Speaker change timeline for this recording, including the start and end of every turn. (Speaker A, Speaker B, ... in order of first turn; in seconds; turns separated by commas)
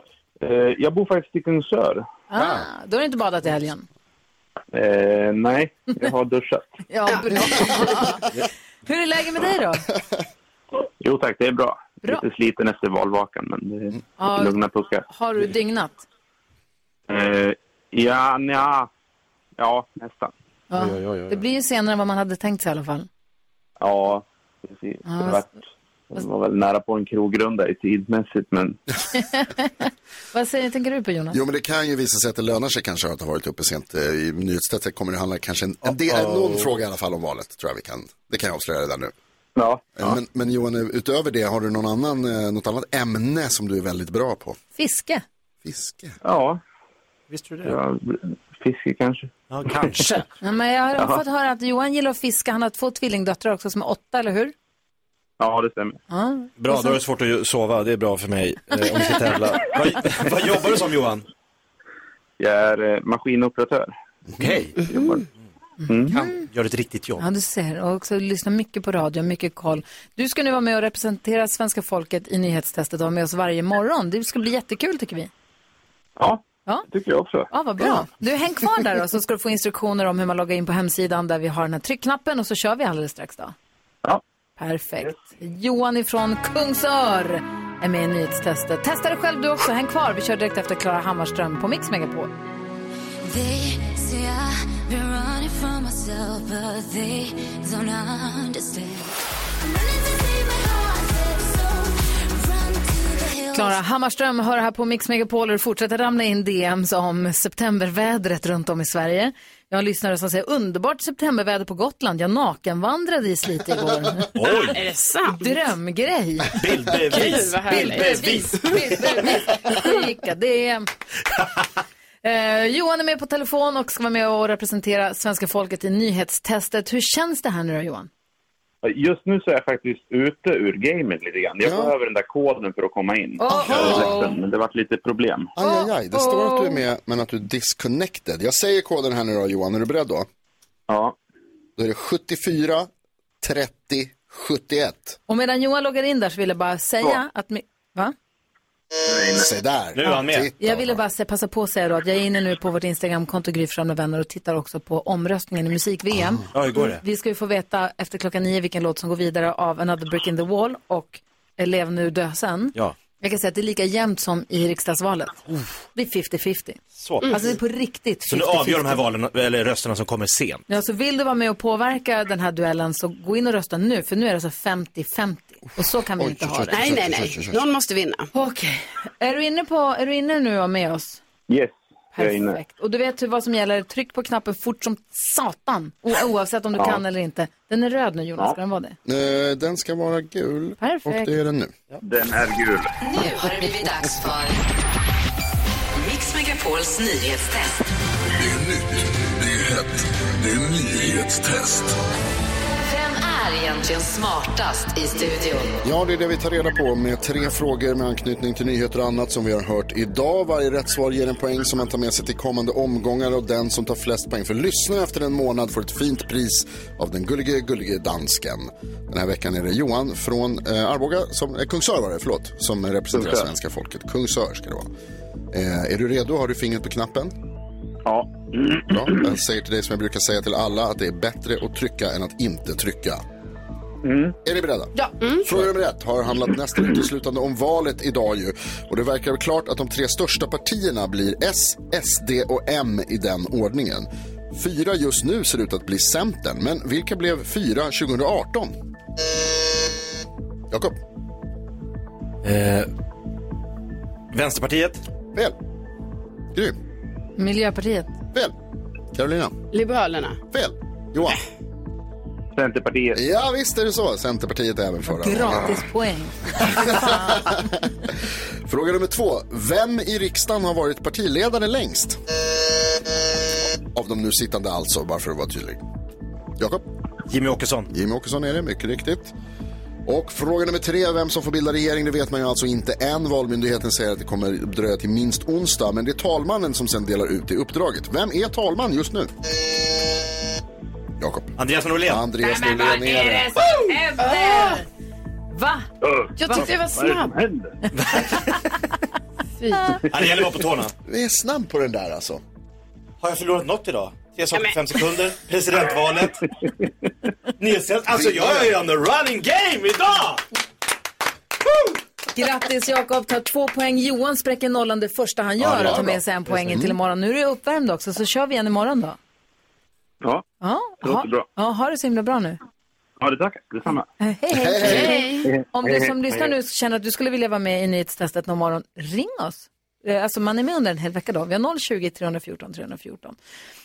Speaker A: 0.4-2.1, Speaker B: 2.3-3.9, Speaker A: 4.7-6.7, Speaker B: 6.9-8.3, Speaker C: 7.1-7.7, Speaker B: 8.8-9.8, Speaker A: 11.0-15.1, Speaker B: 14.2-14.6, Speaker B: 15.1-16.1, Speaker A: 17.1-18.9, Speaker A: 19.6-20.3, Speaker B: 20.7-23.1, Speaker A: 23.8-25.6, Speaker B: 25.1-25.4, Speaker A: 26.1-28.8, Speaker B: 29.1-31.4, Speaker D: 31.3-39.1, Speaker E: 36.1-36.6, Speaker A: 39.6-40.2, Speaker D: 40.0-44.6, Speaker B: 44.8-45.2, Speaker D: 45.6-46.2, Speaker A: 46.2-46.6, Speaker E: 47.3-47.8, Speaker A: 47.6-50.0, Speaker E: 49.5-50.1, Speaker B: 50.1-54.5, Speaker A: 55.4-56.0, Speaker B: 56.1-57.0, Speaker E: 56.6-61.2, Speaker A: 62.4-63.9, Speaker E: 64.4-64.7, Speaker A: 64.9-65.2, Speaker A: 65.9-66.2, Speaker B: 66.1-66.4, Speaker E: 66.1-67.2, Speaker B: 67.2-75.3, Speaker A: 76.2-77.5, Speaker B: 77.5-83.5, Speaker B: 84.6-92.3, Speaker F: 93.2-103.8, Speaker B: 103.5-114.6, Speaker E: 114.4-114.8, Speaker C: 114.5-115.6, Speaker B: 115.3-120.9, Speaker E: 116.6-119.3, Speaker C: 117.1-118.7, Speaker B: 122.2-128.1, Speaker A: 128.8-135.5, Speaker D: 131.6-131.9, Speaker B: 133.4-134.4, Speaker D: 133.5-134.2, Speaker D: 135.6-140.3, Speaker B: 135.6-136.8, Speaker A: 140.9-141.2, Speaker D: 141.8-142.9, Speaker D: 143.4-145.2, Speaker B: 145.3-148.1, Speaker A: 149.1-149.5, Speaker D: 149.3-151.0, Speaker E: 149.9-150.5, Speaker B: 150.6-169.0, Speaker E: 156.5-157.0, Speaker E: 167.0-167.3, Speaker C: 167.2-167.5, Speaker E: 168.3-170.7, Speaker B: 170.7-176.9, Speaker D: 176.2-177.6, Speaker C: 176.7-178.3, Speaker B: 178.3-181.2, Speaker A: 181.5-182.6, Speaker B: 182.2-189.0, Speaker D: 189.1-191.8, Speaker B: 190.8-191.3, Speaker A: 192.0-192.9, Speaker G: 193.0-194.6, Speaker G: 196.0-197.8, Speaker G: 202.8-205.8, Speaker D: 205.8-224.9, Speaker A: 223.2-223.4, Speaker D: 225.5-227.3, Speaker A: 228.1-229.3, Speaker D: 228.9-233.2, Speaker A: 234.0-234.3, Speaker D: 234.4-248.7, Speaker C: 235.2-235.5, Speaker D: 250.7-251.0, Speaker E: 252.4-252.9, Speaker E: 254.3-255.0, Speaker B: 257.4-258.2, Speaker D: 259.1-259.6, Speaker C: 259.7-260.4, Speaker D: 260.5-261.4, Speaker A: 262.6-263.2, Speaker D: 263.1-265.8, Speaker B: 265.1-267.6, Speaker D: 266.6-267.7, Speaker D: 268.7-272.2, Speaker D: 273.9-275.8, Speaker D: 276.6-276.8, Speaker E: 277.3-277.9, Speaker D: 277.9-279.3, Speaker D: 280.1-289.3, Speaker D: 291.2-293.6, Speaker E: 291.6-292.2, Speaker C: 293.6-294.8, Speaker B: 293.6-294.9, Speaker B: 295.5-295.9, Speaker A: 296.0-297.8, Speaker C: 296.4-297.4, Speaker E: 297.9-298.4, Speaker E: 300.1-300.9, Speaker D: 301.1-302.4, Speaker E: 303.2-306.5, Speaker C: 304.5-305.0, Speaker E: 307.6-310.4, Speaker D: 308.1-308.7, Speaker B: 312.3-319.2, Speaker D: 315.6-316.9, Speaker B: 320.6-322.6, Speaker A: 321.0-321.5, Speaker A: 323.2-324.1, Speaker B: 324.2-333.4, Speaker D: 324.5-325.1, Speaker C: 324.9-325.5, Speaker A: 325.5-326.5